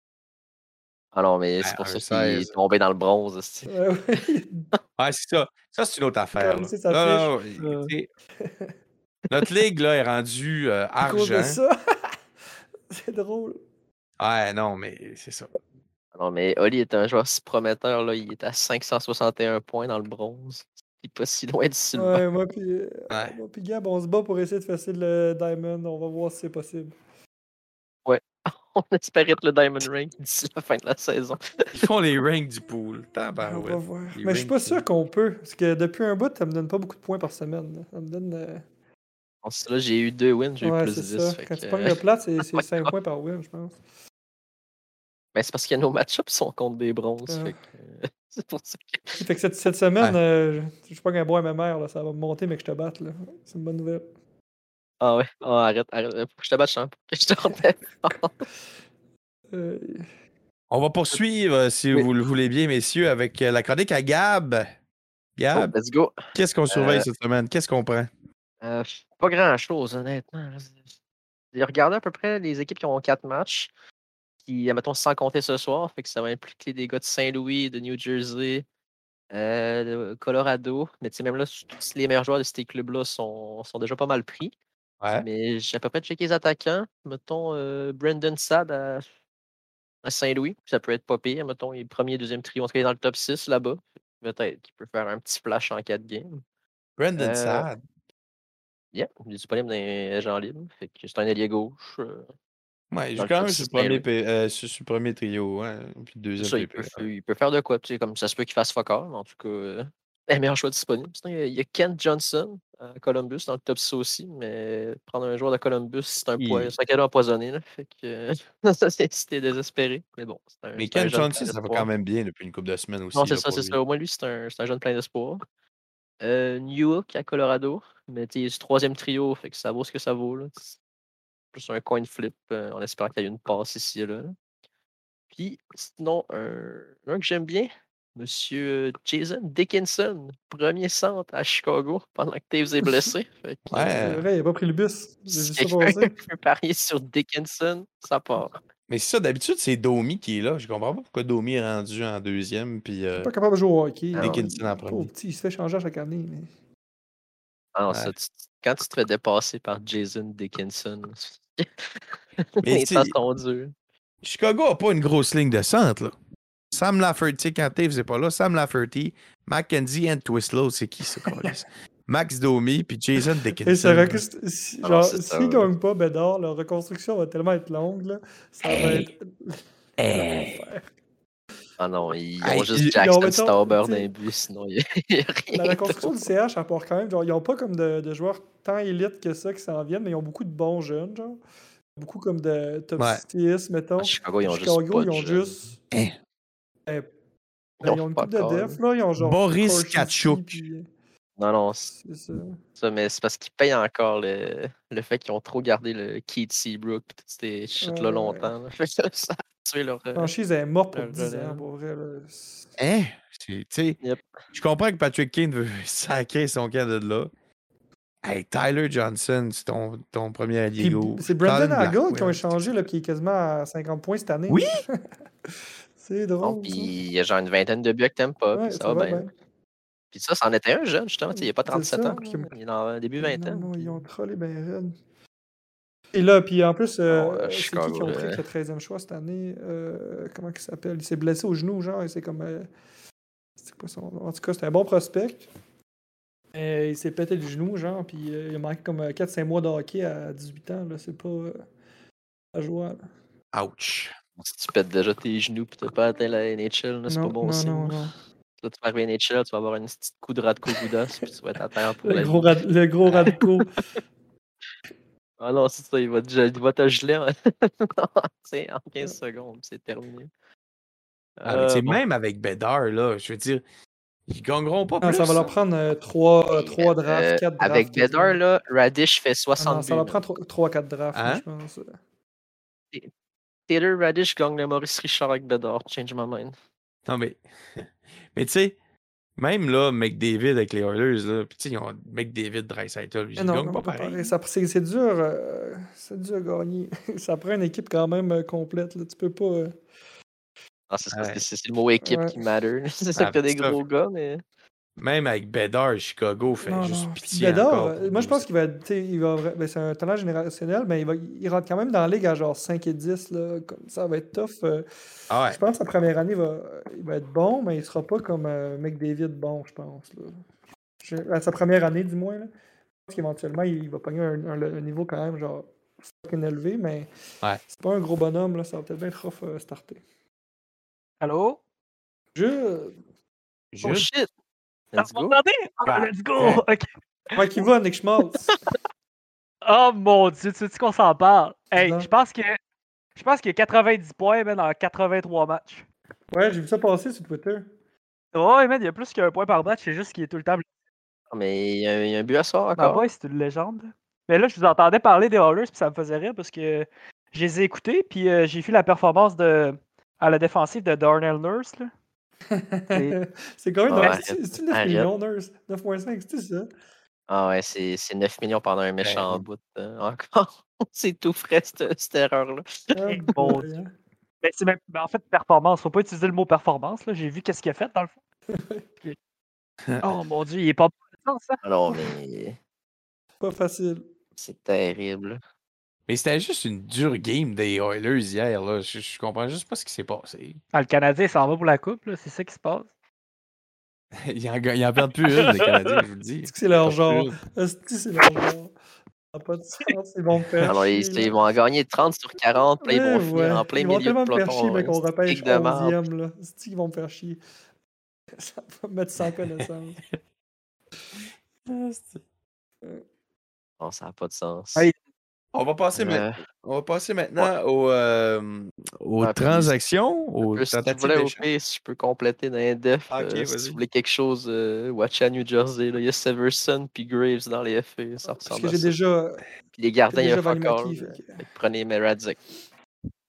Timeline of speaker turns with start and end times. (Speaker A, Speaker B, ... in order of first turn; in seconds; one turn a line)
Speaker A: 1.1-3.7
Speaker B: 1.6-2.5
Speaker C: 3.7-4.7
Speaker B: 5.0-8.1
Speaker C: 6.4-8.7
Speaker B: 9.3-11.6
Speaker C: 11.0-12.2
Speaker C: 12.9-13.6
Speaker B: 14.2-15.5
Speaker A: 16.1-22.2
Speaker C: 21.9-26.9
Speaker B: 23.1-23.4
Speaker A: 28.1-31.4
Speaker B: 31.7-34.8
Speaker C: 33.4-38.6
Speaker A: 39.4-42.9
Speaker C: 40.6-43.8
Speaker A: 45.3-49.2
Speaker C: 47.3-47.5
Speaker C: 49.2-54.0
Speaker A: 55.0-58.4
Speaker C: 59.5-60.0
Speaker B: 60.7-64.7
Speaker B: 65.4-65.7
Speaker A: 65.5-67.1
Speaker B: 66.3-68.1
Speaker A: 68.6-70.8
Speaker A: 71.5-73.7
Speaker A: 74.4-78.7
Speaker A: 79.3-84.5
Speaker B: 85.0-85.2
Speaker A: 85.2-89.0
Speaker A: 90.0-96.4
Speaker B: 97.0-97.8
Speaker A: 97.2-97.7
Speaker A: 98.9-102.3
Speaker B: 102.9-107.0
Speaker A: 103.2-104.0
Speaker A: 106.4-121.9
Speaker B: 116.4-116.7
Speaker B: 120.8-123.8
Speaker A: 123.1-125.4
Speaker A: 126.2-130.8
Speaker A: 131.5-134.3
Speaker A: 135.3-144.0
Speaker C: 142.8-143.1
Speaker B: 143.7-144.2
Speaker C: 143.9-146.2
Speaker A: 145.3-148.6
Speaker B: 148.9-153.3
Speaker C: 153.2-156.5
Speaker A: 154.1-154.4
Speaker B: 154.2-155.1
Speaker A: 157.8-163.7
Speaker B: 157.9-158.1
Speaker B: 162.6-163.1
Speaker B: 164.2-166.2
Speaker B: 166.7-174.2
Speaker C: 171.2-171.6
Speaker C: 173.6-180.8
Speaker A: 174.8-175.7
Speaker B: 178.7-179.1
Speaker B: 180.0-180.6
Speaker A: 181.8-186.2
Speaker B: 182.4-182.9
Speaker C: 182.8-184.1
Speaker C: 185.5-191.4
Speaker C: 192.0-195.8
Speaker A: 194.0-195.5
Speaker C: 197.8-200.8
Speaker A: 197.8-198.8
Speaker B: 199.2-200.6
Speaker A: 201.4-201.9
Speaker C: 202.0-202.6
Speaker A: 202.8-210.3
Speaker C: 207.8-208.5
Speaker C: 210.1-212.7
Speaker A: 210.9-211.7
Speaker B: 212.8-214.0
Speaker B: 214.5-217.3
Speaker B: 218.2-222.5
Speaker C: 220.8-225.0
Speaker C: 226.0-226.9
Speaker A: 226.4-229.2
Speaker C: 228.5-229.3
Speaker A: 230.1-234.0
Speaker C: 231.3-232.5
Speaker C: 233.2-234.9
Speaker C: 236.1-242.7
Speaker A: 237.1-238.4
Speaker C: 243.6-245.4
Speaker C: 246.5-251.6
Speaker C: 252.5-253.0
Speaker B: 253.5-254.1
Speaker A: 254.4-258.0
Speaker C: 257.1-258.1
Speaker A: 258.6-262.6
Speaker C: 262.0-263.7
Speaker B: 263.0-263.4
Speaker A: 265.4-270.3
Speaker A: 271.4-272.0
Speaker B: 271.4-273.6
Speaker B: 274.3-275.5
Speaker C: 275.0-278.4
Speaker A: 276.5-280.2
Speaker C: 279.6-282.0
Speaker B: 281.1-281.4
Speaker A: 283.7-286.5
Speaker B: 287.1-288.8
Speaker B: 289.4-294.3
Speaker C: 293.4-299.7
Speaker A: 300.9-304.4
Speaker B: 301.1-301.4
Speaker C: 302.0-302.4
Speaker B: 303.2-303.8
Speaker B: 305.0-308.4
Speaker C: 306.6-314.9
Speaker B: 315.3-315.6
Speaker C: 315.4-320.4
Speaker C: 321.0-322.5
Speaker C: 323.1-325.7
Speaker C: 326.2-327.1
Speaker C: 327.7-330.0
Speaker D: 331.2-331.6
Speaker C: 332.3-332.9
Speaker B: 333.7-334.1
Speaker A: 333.8-334.3
Speaker A: 334.9-335.4
Speaker D: 334.9-336.9
Speaker B: 335.8-336.6
Speaker C: 337.3-338.5
Speaker D: 339.6-342.6
Speaker C: 341.8-342.1
Speaker D: 343.1-345.8
Speaker C: 346.3-347.7
Speaker D: 348.3-350.6
Speaker A: 351.3-353.0
Speaker D: 352.8-361.9
Speaker C: 362.5-366.7
Speaker A: 363.9-365.1
Speaker A: 367.3-372.9
Speaker B: 369.0-369.4
Speaker C: 372.9-373.9
Speaker D: 373.1-373.7
Speaker D: 374.4-378.1
Speaker C: 378.5-378.8
Speaker D: 380.0-381.6
Speaker A: 381.6-382.6
Speaker C: 383.4-384.1
Speaker A: 384.4-385.4
Speaker B: 386.1-390.6
Speaker D: 390.7-392.9
Speaker B: 394.2-397.4
Speaker D: 395.3-396.0
Speaker C: 396.5-398.7
Speaker C: 399.3-401.3
Speaker A: 400.6-406.0
Speaker C: 402.8-407.4
Speaker C: 408.4-410.0
Speaker B: 411.6-412.2
Speaker A: 413.8-414.9
Speaker B: 415.5-421.4
Speaker A: 415.9-416.4
Speaker A: 419.2-419.7
Speaker A: 420.4-428.9
Speaker B: 423.1-423.8
Speaker C: 428.3-429.4
Speaker A: 429.8-432.4
Speaker C: 430.1-431.4